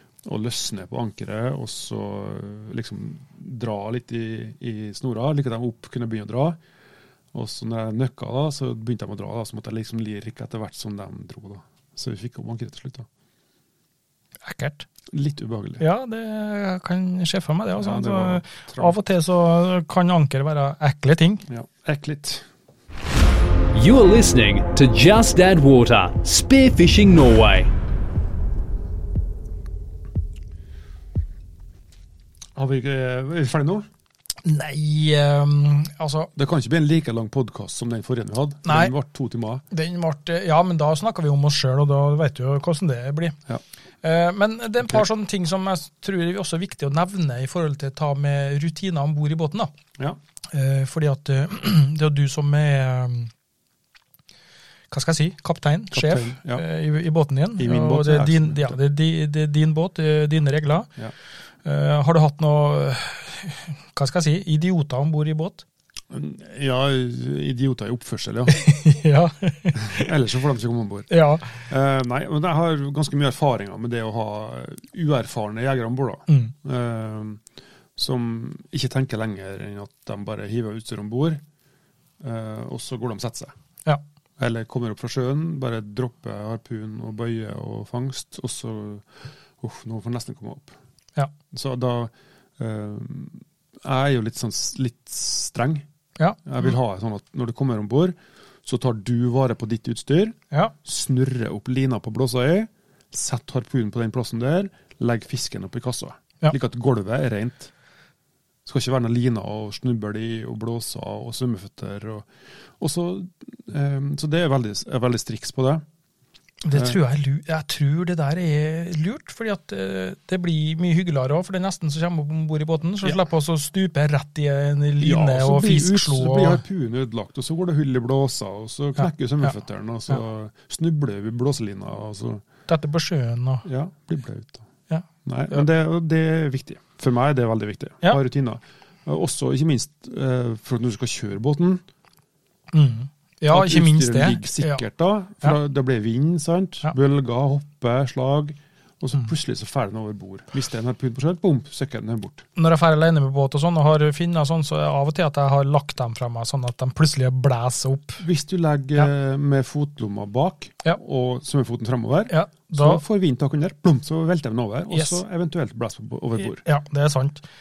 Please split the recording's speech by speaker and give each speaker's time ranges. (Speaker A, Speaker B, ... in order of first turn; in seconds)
Speaker A: 0.2-6.6, 7.3-13.1, 15.1-15.8, 17.8-19.0, 21.5-22.5, 32.5-33.9, 36.3-39.6, 55.9-56.6, 57.6-58.8, 66.1-68.6, 69.7-77.4, 78.0-81.4, 82.2-83.5, 84.4-90.7, 91.5-95.8, 96.4-107.7, 108.6-112.3, 112.8-115.8, 116.7-117.0, 125.0-132.4, 133.6-134.7, 135.2-141.8, 143.5-152.4, 158.2-166.6
Speaker B: 14.4-14.9, 15.8-21.4, 34.4-36.3, 38.6-38.9, 39.7-43.4, 44.0-49.7, 50.5-53.3, 54.9-60.9, 61.6-65.6, 68.5-70.0, 71.1-71.6, 76.3-76.5, 96.2-96.4, 116.6-126.6, 129.0-129.5, 132.7-133.6, 134.9-135.6, 142.7-144.8, 152.6-158.2, 162.3-163.0, 164.9-165.2, 166.4-167.4
Speaker C: 23.7-27.7